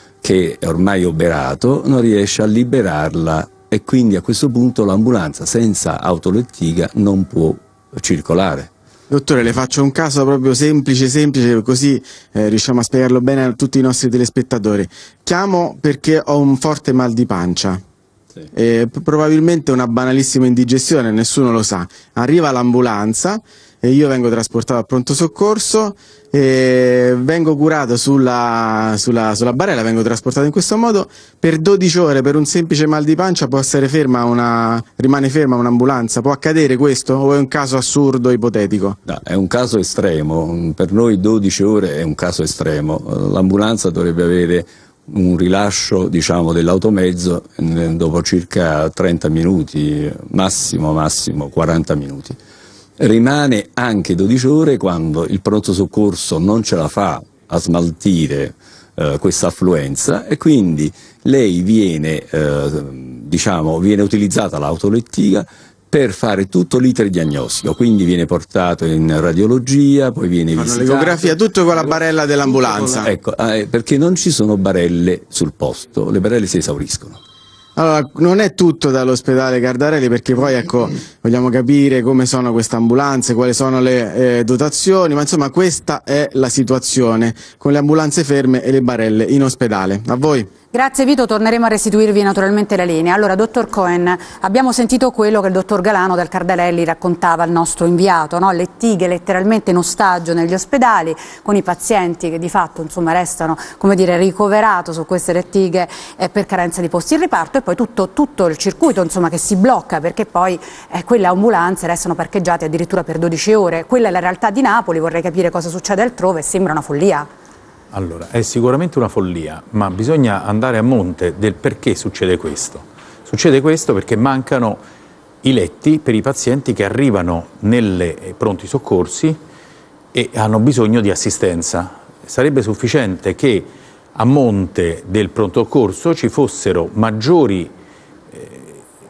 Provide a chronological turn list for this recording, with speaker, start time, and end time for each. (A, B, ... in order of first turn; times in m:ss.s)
0:00.2-0:08.7 A
0:09.1-0:17.8 B
0:18.5-0:39.0 B
0:39.1-0:52.4 A
0:53.0-1:11.2 A
1:10.6-1:13.1 B
1:13.0-1:17.2 A
1:17.8-1:30.5 B
1:30.7-1:57.3 C
1:57.9-2:04.8 D
2:05.4-2:09.4 D
2:10.1-2:17.7 D
2:18.3-2:18.8 D